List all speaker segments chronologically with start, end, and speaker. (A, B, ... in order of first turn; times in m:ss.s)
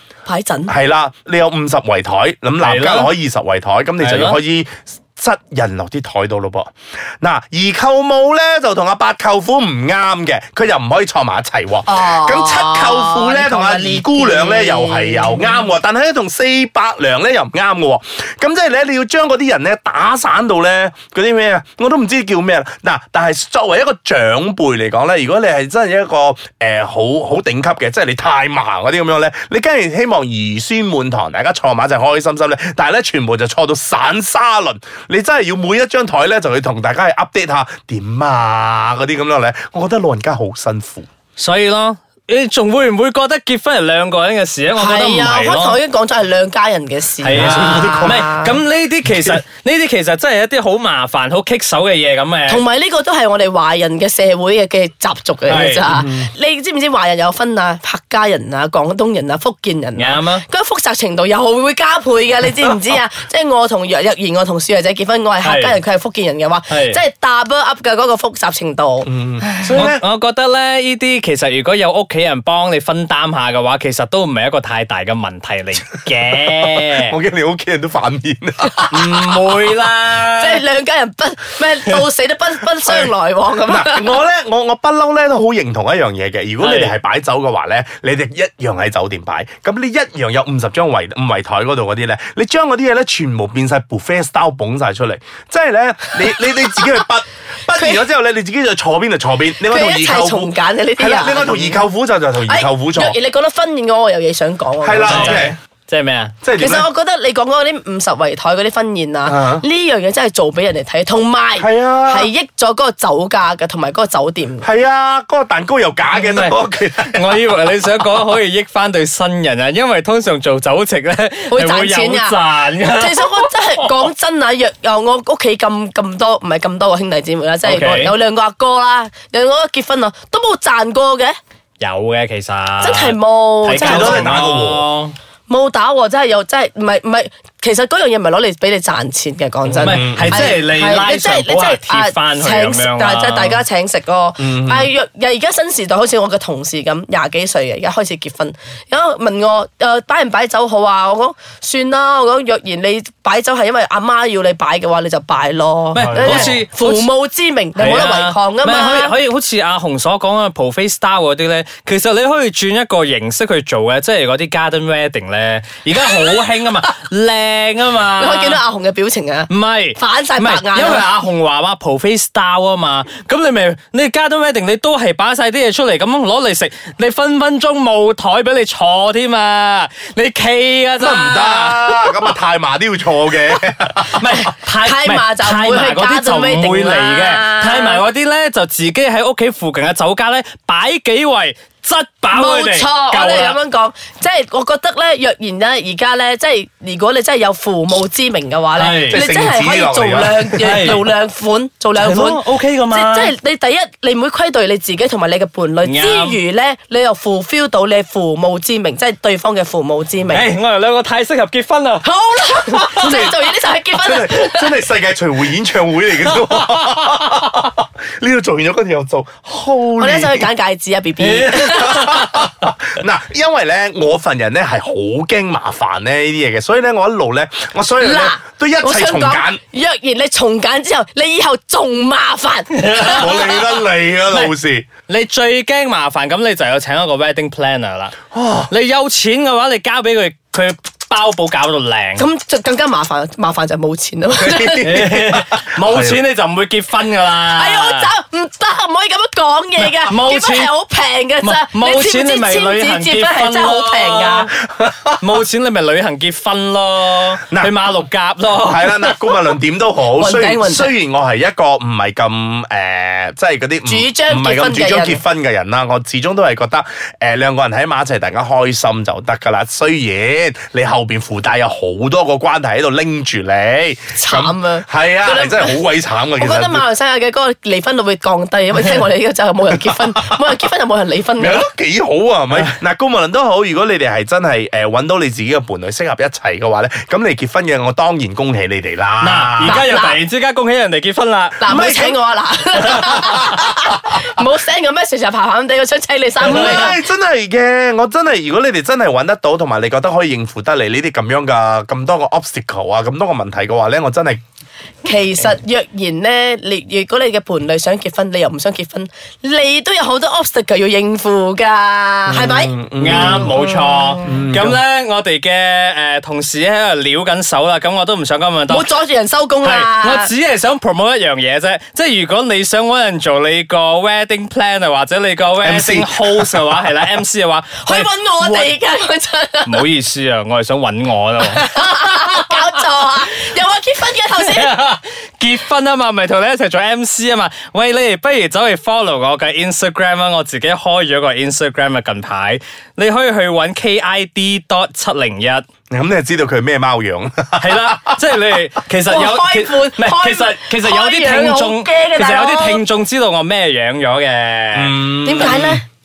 0:00.2-0:00.7 A
0:00.7-0:41.1 B
0:02.6-0:03.1 C
0:04.0-0:04.4 C
0:11.8-0:15.7 A
0:41.4-0:45.8 C
0:44.8-0:48.6 A
0:47.2-0:52.6 C
0:47.3-0:48.2 B
0:49.1-0:49.4 B
0:52.5-1:09.1 A
0:55.5-0:55.9 C
0:55.5-0:56.3 B
1:00.0-1:00.5 C
1:05.4-1:05.8 C
1:06.7-1:07.0 C
1:09.0-1:10.0 B
1:09.6-1:17.1 C
1:17.0-1:19.2 B
1:18.9-1:20.6 C
1:20.4-1:24.2 A
1:23.6-1:43.2 B
1:26.6-1:26.9 C
1:37.7-1:38.0 A
1:39.6-1:41.8 A
1:42.4-1:45.5 A
1:44.8-1:45.6 B
1:45.0-1:46.3 C
1:46.4-1:46.9 B
1:46.6-1:54.7 A
1:49.2-1:49.6 B
1:51.6-1:52.3 B
1:54.6-1:57.4 B
1:56.1-2:03.9 C
2:01.5-2:11.4 A
2:07.6-2:08.1 C
2:11.8-2:15.2 C
2:12.8-2:14.4 A
2:13.7-2:14.8 B
2:15.5-2:39.1 A
2:19.6-2:23.6 C
2:19.8-2:20.5 B
2:24.4-2:24.9 B
2:35.9-2:37.1 C
2:36.0-2:36.6 B
2:37.8-2:48.6 C
2:48.2-2:51.1 A
2:49.5-3:02.2 C
3:01.0-3:04.3 B
3:03.6-3:13.6 C
3:04.8-3:08.0 A
3:12.3-3:30.5 A
3:18.8-3:19.2 C
3:19.1-3:21.0 B
3:20.6-3:21.0 C
3:22.0-3:23.3 C
3:25.8-3:26.4 C
3:30.3-3:32.0 C
3:32.0-3:34.6 A
3:32.7-3:33.3 C
3:33.0-3:33.3 B
3:34.0-3:40.5 B
3:36.3-3:37.2 C
3:40.0-3:42.1 A
3:41.2-3:42.5 C
3:41.5-3:49.6 B
3:48.0-3:53.5 A
3:52.8-3:53.7 C
3:53.0-3:54.9 B
3:54.3-3:54.5 C
3:55.1-4:02.2 C
3:58.3-3:58.7 B
4:02.2-4:05.0 A
4:04.4-4:06.2 B
4:04.8-4:08.1 C
4:07.5-4:14.5 A
4:10.1-4:10.7 C
4:11.4-4:14.6 C
4:14.8-4:15.2 B
4:15.2-4:19.4 C
4:17.4-4:17.7 B
4:18.6-4:36.8 B
4:20.1-4:20.9 A
4:23.8-4:25.2 A
4:34.1-4:35.8 A
4:36.4-4:41.6 A
4:41.4-4:49.8 B
4:49.2-4:51.6 C
4:49.6-4:50.2 A
4:51.6-4:57.0 A
4:51.6-4:52.2 B
4:52.8-4:54.3 B
4:56.4-5:04.4 B
4:56.4-4:56.8 C
5:05.0-5:14.4 A
5:12.3-5:13.5 B
5:13.0-5:18.9 C
5:14.2-5:14.8 B
5:18.7-5:20.3 A
5:19.6-5:28.7 C
5:25.6-5:26.8 B
5:27.8-5:29.8 A
5:29.6-5:32.0 C
5:31.4-5:34.7 A
5:34.3-5:45.6 C
5:45.9-5:48.2 B
5:47.6-5:55.5 C
5:49.1-5:52.8 A
5:54.7-5:55.8 B
5:55.2-5:55.8 A